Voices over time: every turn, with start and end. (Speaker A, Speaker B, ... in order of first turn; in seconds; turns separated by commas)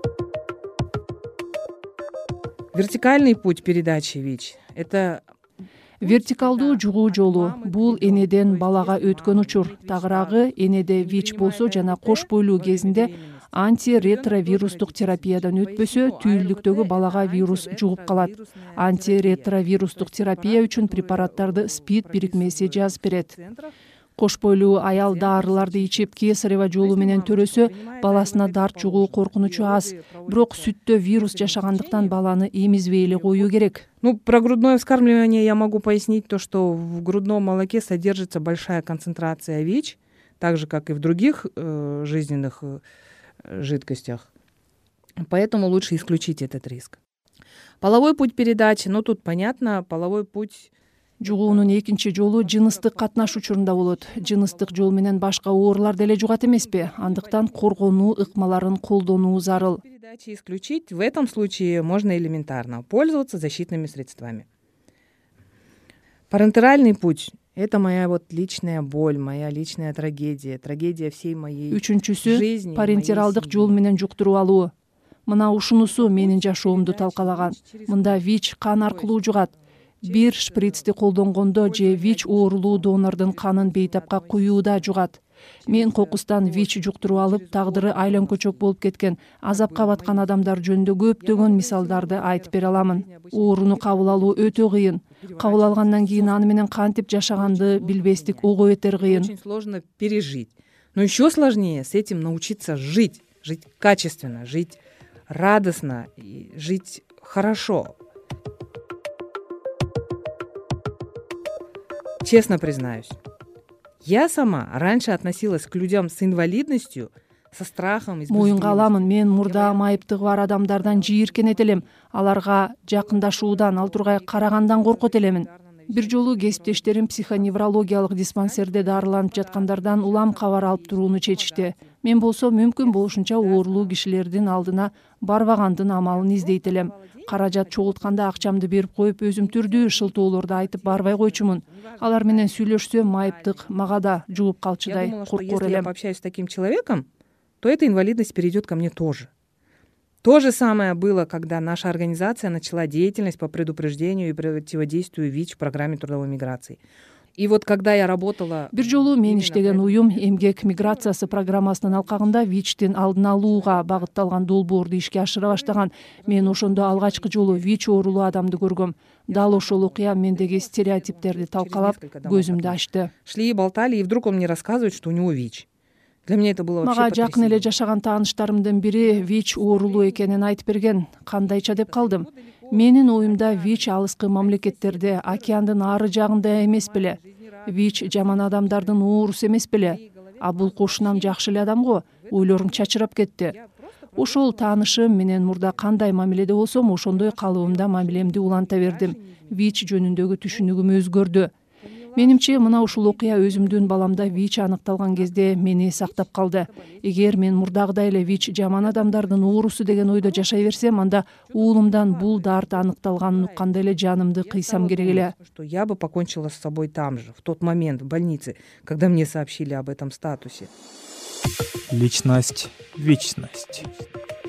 Speaker A: 2.7-5.2, Speaker B: 6.0-23.3, Speaker A: 6.0-23.7, Speaker B: 24.2-33.9, Speaker A: 24.9-32.2, Speaker A: 33.1-42.8, Speaker A: 43.5-44.3, Speaker A: 45.2-47.0, Speaker A: 47.8-50.7, Speaker B: 51.2-59.8, Speaker A: 51.2-55.0, Speaker A: 56.1-58.3, Speaker A: 59.5-64.5, Speaker A: 66.3-73.8, Speaker B: 71.7-74.7, Speaker B: 75.3-99.3, Speaker A: 75.9-78.2, Speaker A: 78.8-80.9, Speaker A: 81.5-85.0, Speaker A: 85.7-88.7, Speaker A: 89.5-90.6, Speaker A: 91.2-96.6, Speaker A: 97.3-104.8, Speaker A: 105.3-107.9, Speaker A: 112.2-113.2, Speaker A: 114.0-121.9, Speaker B: 118.3-145.9, Speaker A: 123.0-132.0, Speaker A: 132.8-134.0, Speaker A: 136.0-138.7, Speaker A: 139.3-143.8, Speaker A: 144.8-147.1, Speaker A: 147.6-149.3, Speaker A: 150.2-156.8, Speaker A: 157.4-162.4, Speaker B: 158.7-173.1, Speaker A: 163.1-164.1, Speaker A: 165.5-168.6, Speaker A: 169.3-175.7, Speaker A: 176.3-177.7, Speaker B: 176.8-193.6, Speaker A: 179.0-180.5, Speaker A: 181.4-189.1, Speaker A: 189.8-192.9, Speaker A: 193.4-196.0, Speaker B: 194.2-201.5, Speaker A: 197.0-199.8, Speaker A: 200.5-200.8, Speaker A: 201.8-211.0, Speaker B: 202.2-215.3, Speaker A: 211.5-220.7, Speaker C: 221.9-223.9